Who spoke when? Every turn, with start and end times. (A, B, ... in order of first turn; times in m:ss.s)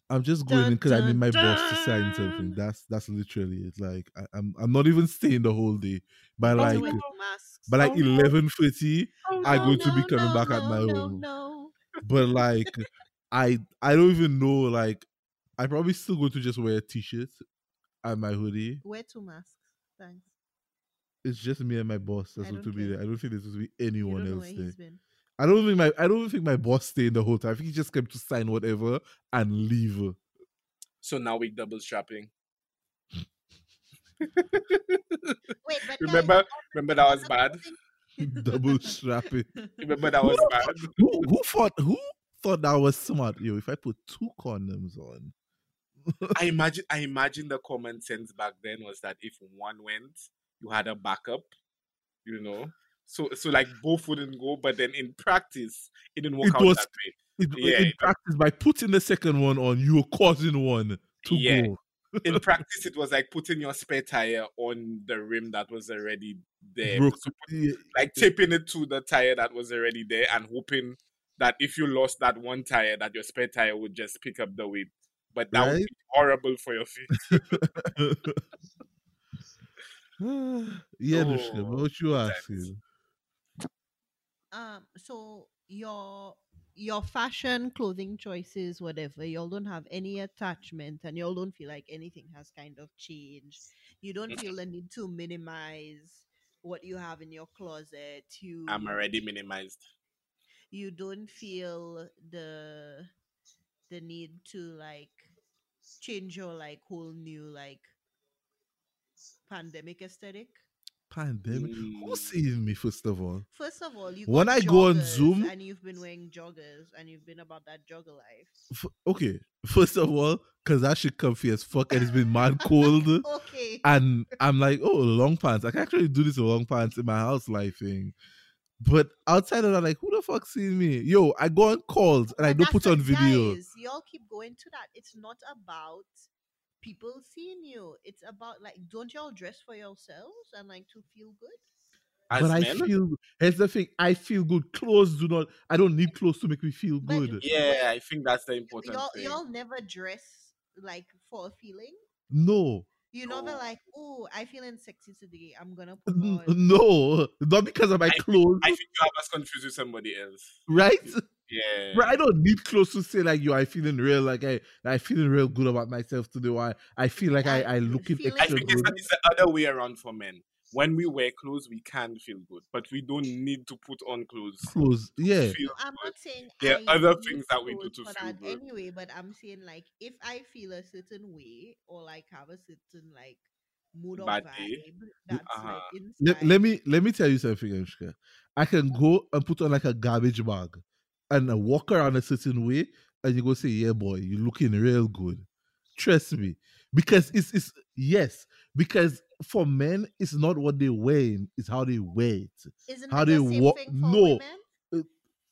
0:00.1-0:07.0 A
0:00.5-0:02.5 B
0:06.4-0:08.4 B
0:06.5-0:07.0 C
0:07.7-0:11.2 A
0:09.2-0:09.7 C
0:09.4-0:11.7 B
0:12.0-0:15.1 A
0:15.6-0:17.4 A
0:18.0-0:18.8 A
0:18.8-0:20.3 B
0:21.2-0:24.7 A
0:22.4-0:23.0 B
0:24.0-0:25.0 B
0:25.4-0:30.2 A
0:31.0-0:32.3 C
0:34.2-0:35.4 C
0:35.6-0:39.0 B
0:36.0-0:37.6 C
0:38.2-0:39.5 A
0:39.5-0:39.8 B
0:39.8-0:41.2 C
0:40.2-0:45.3 A
0:46.0-0:46.3 A
0:46.3-0:51.5 C
0:52.2-0:58.1 C
0:56.4-0:56.8 A
0:57.4-1:02.4 A
1:01.2-1:01.7 C
1:02.2-1:17.6 C
1:06.8-1:08.2 A
1:15.5-1:15.9 A
1:17.3-1:18.4 A
1:20.2-1:22.8 A
1:21.1-1:22.7 C
1:24.5-1:39.0 B
1:38.7-1:39.8 C
1:40.7-1:43.1 B
1:43.9-1:45.3 B
1:46.0-1:47.9 B
1:49.5-1:50.6 B
1:51.1-1:53.4 A
1:51.5-1:52.3 C
1:53.5-1:58.5 B
1:54.3-1:55.5 A
1:58.7-2:03.2 A
2:01.9-2:03.9 B
2:03.8-2:08.1 A
2:08.8-2:13.6 A
2:12.4-2:16.3 B
2:16.8-2:21.6 B
2:22.3-2:22.9 C
2:22.4-2:27.4 A
2:27.0-2:27.9 B
2:27.4-2:29.4 C
2:28.7-2:32.0 B
2:32.3-2:32.9 A
2:33.1-2:36.8 B
2:33.3-2:33.6 C
2:36.1-2:38.8 A
2:38.1-2:42.2 C
2:40.7-2:41.2 A
2:41.9-2:49.0 A
2:47.4-2:49.0 B
2:48.4-2:58.6 C
2:54.6-2:55.6 A
2:55.7-3:06.6 B
3:04.2-3:04.8 C
3:05.4-3:05.9 C
3:06.2-3:25.1 A
3:22.9-3:24.6 B